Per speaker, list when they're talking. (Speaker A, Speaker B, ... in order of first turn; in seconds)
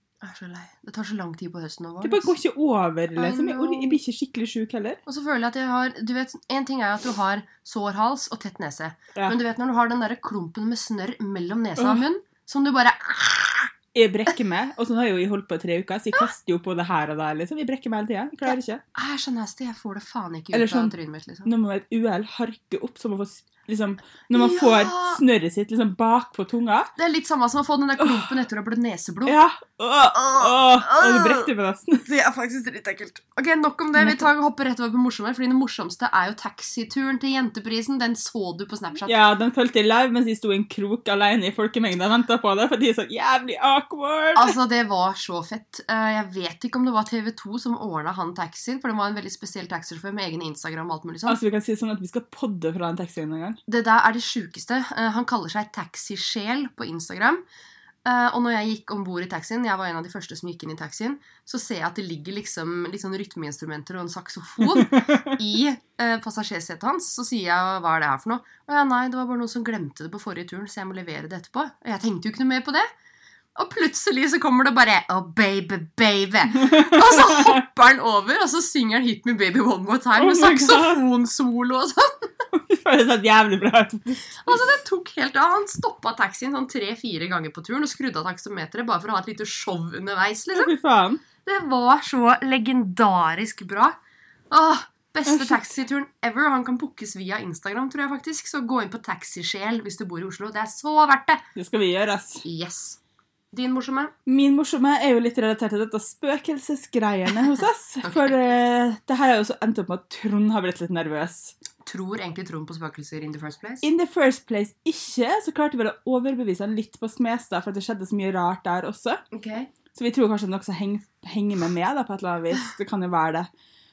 Speaker A: 0.2-2.3, 3.2-4.0, 5.1-13.7, 18.4-21.5, 24.3-25.2, 27.0-29.4, 30.1-31.5, 32.0-39.2, 44.4-51.4, 53.7-57.4, 58.0-72.9, 73.6-82.3, 84.4-90.7, 91.4-94.0, 94.5-101.4, 102.4-103.0, 103.5-104.1, 108.0-108.3, 111.8-113.8, 119.3-119.7
Speaker B: 2.0-5.0, 11.8-12.1, 13.9-18.8, 20.5-20.9, 21.4-26.9, 28.0-28.3, 29.3-32.1, 34.0-34.3, 39.1-44.6, 51.3-53.6, 64.8-65.4, 76.6-77.6, 80.2-81.0, 82.5-84.6, 90.5-91.2, 95.3-95.7, 101.5-102.5, 104.3-111.6, 113.8-119.2, 119.9-123.5